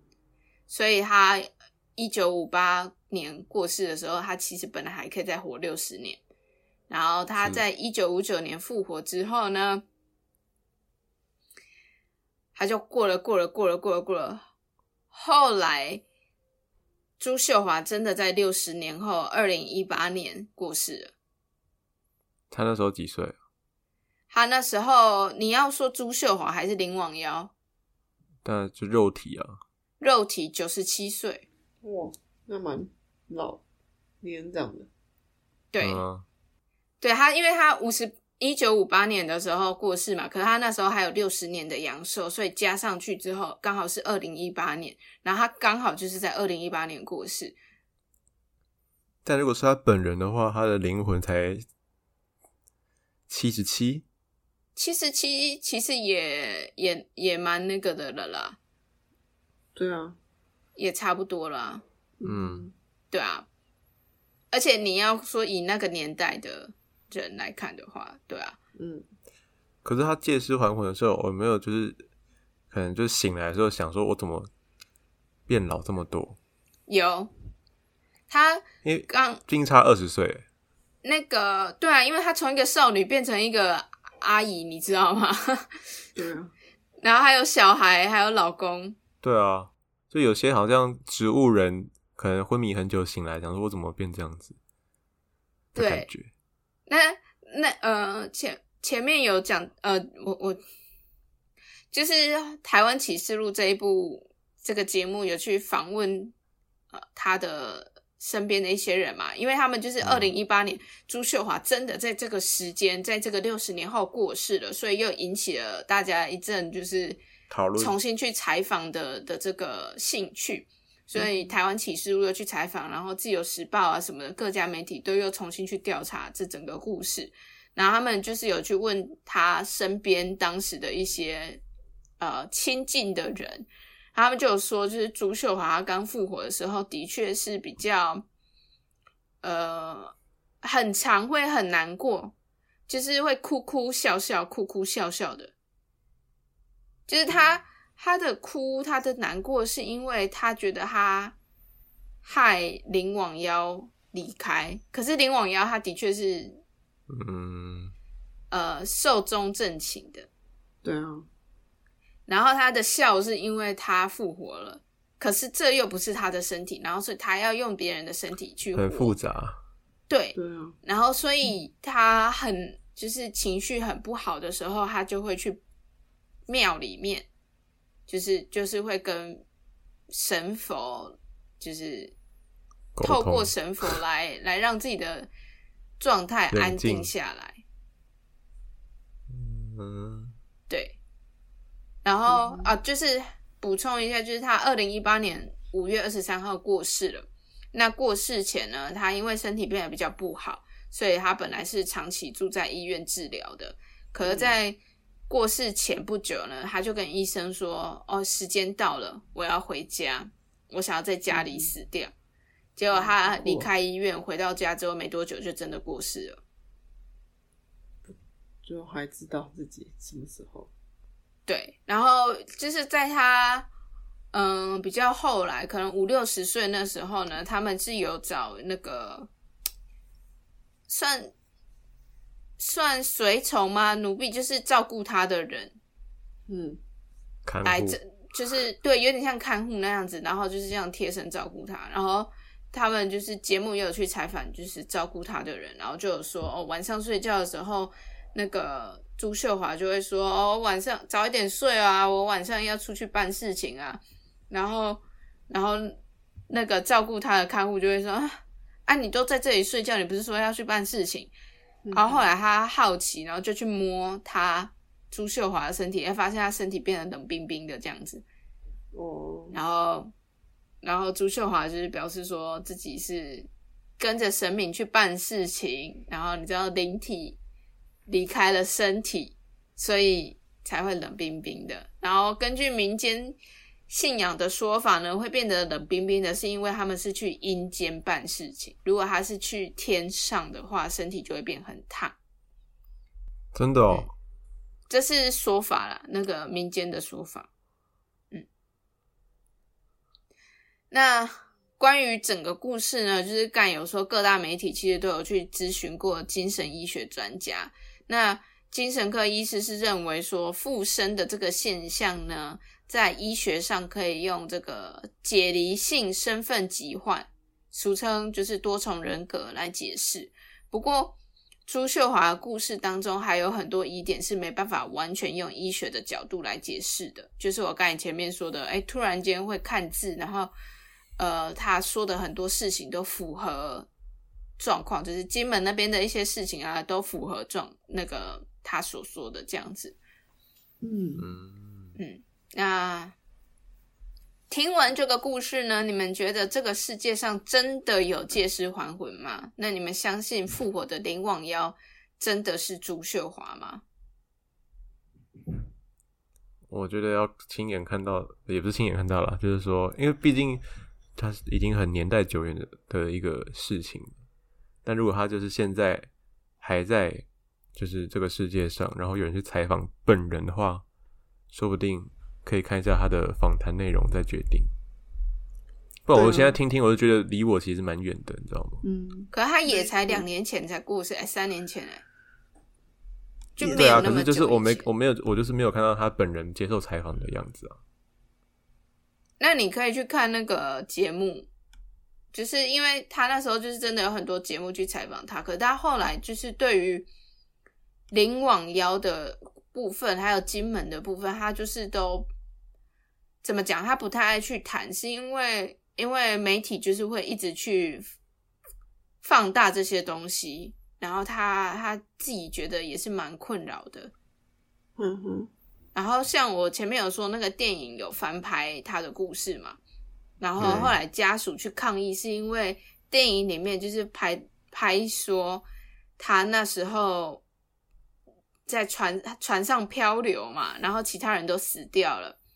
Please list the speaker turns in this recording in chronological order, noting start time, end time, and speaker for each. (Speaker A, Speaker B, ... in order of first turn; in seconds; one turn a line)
Speaker A: 0.7-6.2
Speaker A: 6.9-9.8
Speaker A: 12.5-14.4
Speaker A: 15.1-16.0
Speaker A: 17.2-21.1
Speaker B: 22.5-23.3
Speaker A: 24.3-27.5
Speaker B: 28.4-29.6
Speaker A: 30.0-31.4
Speaker C: 31.8-33.6
Speaker C: 34.2-34.9
Speaker A: 35.7-36.0
Speaker B: 35.8-36.2
Speaker A: 37.0-47.5
Speaker B: 49.2-51.6
Speaker B: 53.3-54.0
Speaker A: 54.8-58.6
Speaker C: 59.7-60.2
Speaker A: 60.8-61.8
Speaker C: 62.2-62.7
Speaker B: 62.2-62.7
Speaker A: 63.1-63.5
Speaker A: 64.5-68.6
Speaker C: 68.8-69.1
Speaker B: 69.8-72.0
Speaker B: 72.7-74.5
Speaker B: 75.5-76.4
Speaker A: 76.9-77.3
Speaker A: 78.3-79.4
Speaker B: 78.8-80.4
Speaker A: 81.0-85.8
Speaker C: 86.1-86.5
Speaker A: 87.0-89.0
Speaker B: 89.2-94.5
Speaker A: 95.7-96.1
Speaker B: 95.8-96.3
Speaker A: 96.9-100.6
Speaker A: 101.9-106.3
Speaker A: 106.9-117.2
Speaker B: 110.0-110.3
Speaker B: 117.5-117.9
Speaker A: 117.8-131.6
Speaker C: 121.2-121.5
Speaker A: 132.2-138.2
Speaker A: 139.4-142.3
Speaker A: 142.9-145.5
Speaker A: 147.1-151.3
Speaker A: 152.2-156.6
Speaker B: 157.1-157.9
Speaker A: 158.5-160.3
Speaker C: 160.8-161.3
Speaker A: 162.3-169.1
Speaker B: 168.7-169.6
Speaker A: 170.1-175.6
Speaker C: 170.3-170.7
Speaker A: 176.5-177.3
Speaker A: 178.1-179.4
Speaker A: 180.1-182.1
Speaker B: 182.9-184.0
Speaker A: 183.0-185.3
Speaker A: 186.0-187.6
Speaker B: 186.5-187.1
Speaker B: 189.3-190.3
Speaker A: 190.7-191.0
Speaker A: 192.0-204.8
Speaker C: 192.3-192.7
Speaker C: 204.2-204.5
Speaker A: 205.3-212.1
Speaker C: 211.3-211.7
Speaker A: 212.8-216.4
Speaker C: 212.9-213.7
Speaker C: 218.1-220.7
Speaker A: 221.5-223.7
Speaker A: 224.3-229.3
Speaker A: 230.9-231.3
Speaker A: 232.6-235.8
Speaker C: 236.5-236.8
Speaker B: 237.4-238.0
Speaker A: 237.6-256.0
Speaker A: 256.5-261.3
Speaker C: 261.8-262.3
Speaker A: 261.9-268.2
Speaker C: 268.9-269.6
Speaker A: 269.5-270.1
Speaker A: 270.8-273.5
Speaker A: 274.0-277.4
Speaker A: 278.1-283.4
Speaker A: 283.9-292.1
Speaker B: 293.5-294.1
Speaker A: 294.9-297.5
Speaker A: 300.9-321.1
Speaker A: 321.7-330.5
Speaker A: 331.2-333.9
Speaker A: 334.6-340.0
Speaker C: 340.8-341.2
Speaker B: 341.2-341.9
Speaker A: 341.9-343.1
Speaker A: 344.5-353.8
Speaker B: 356.7-360.6
Speaker B: 361.1-364.1
Speaker B: 364.8-366.1
Speaker B: 366.6-370.8
Speaker B: 371.5-374.7
Speaker B: 376.0-378.8
Speaker C: 376.1-376.6
Speaker C: 378.8-380.2
Speaker A: 379.3-382.0
Speaker A: 383.6-384.9
Speaker C: 383.6-384.2
Speaker B: 383.6-387.8
Speaker A: 389.4-391.5
Speaker A: 392.3-397.1
Speaker A: 398.1-402.3
Speaker A: 403.4-408.0
Speaker A: 409.2-414.1
Speaker C: 415.0-415.5
Speaker A: 415.9-419.8
Speaker A: 420.4-425.6
Speaker B: 420.6-420.9
Speaker A: 426.2-427.4
Speaker A: 428.7-432.4